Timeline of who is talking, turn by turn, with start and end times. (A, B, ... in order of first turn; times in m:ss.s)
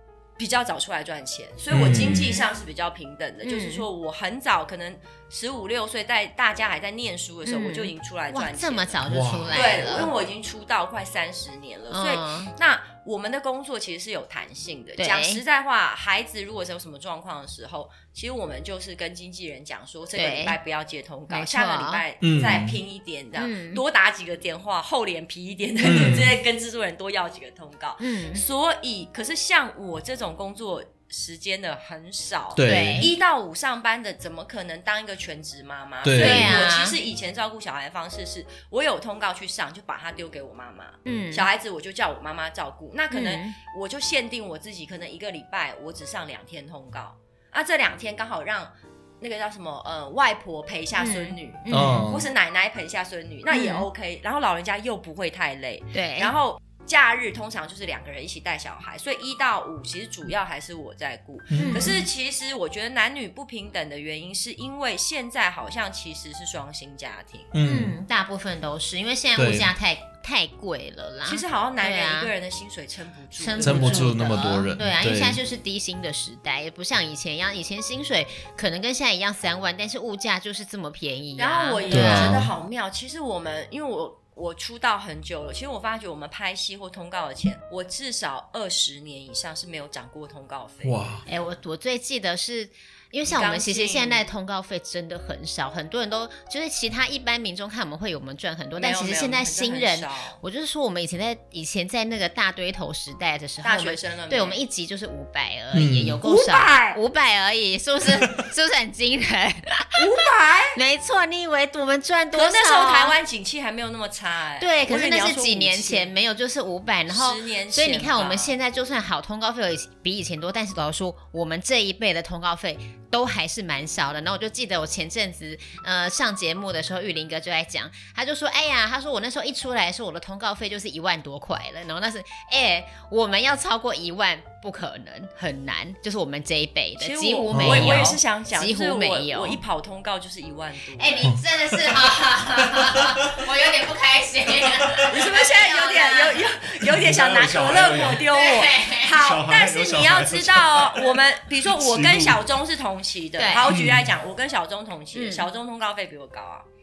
0:00.4-1:07.5 A
0:01.7-0:02.3 B
0:01.9-0:02.5 C
0:03.4-0:03.8 C
0:07.4-0:10.1 C
0:09.1-0:09.6 B
0:11.9-0:12.5 C
0:15.0-0:15.4 C
0:20.1-0:20.6 C
0:21.3-0:22.0 C
0:22.2-0:22.8 B
0:23.4-0:23.8 C
0:25.8-0:26.4 B
0:25.8-0:26.2 C
0:28.0-0:28.4 C
0:32.5-0:33.1 B
0:32.6-0:33.1 C
0:36.0-0:36.5 B
0:36.2-0:37.0 C
0:41.0-0:41.5 C
0:43.1-0:43.5 C
0:51.0-0:52.1 C
0:51.7-0:52.3 B
0:53.5-0:53.9 C
0:55.9-0:56.3 C
1:01.5-1:02.0 B
1:01.5-1:02.0 C
1:07.5-1:08.0 B
1:07.6-1:12.3 C
1:09.4-1:09.7 B
1:11.2-1:14.1 A
1:13.4-1:22.4 C
1:13.6-1:15.4 B
1:21.4-1:31.0 A
1:21.9-1:22.5 B
1:30.8-1:31.2 B
1:31.2-1:50.0 C
1:33.2-1:34.2 A
1:38.8-1:40.4 A
1:43.6-1:44.6 A
1:45.7-1:46.2 B
1:46.2-1:47.0 A
1:50.0-1:50.8 A
1:50.7-1:53.1 C
1:52.3-1:56.1 A
1:54.6-2:19.6 C
1:57.1-1:58.5 A
2:17.0-2:21.2 A
2:17.5-2:18.2 B
2:21.0-2:26.4 C
2:21.2-2:22.0 B
2:22.7-2:23.0 B
2:25.1-2:36.6 A
2:26.8-2:28.3 B
2:28.3-2:29.2 C
2:29.2-2:32.4 B
2:33.4-2:33.7 C
2:33.7-2:34.1 B
2:35.1-2:35.5 C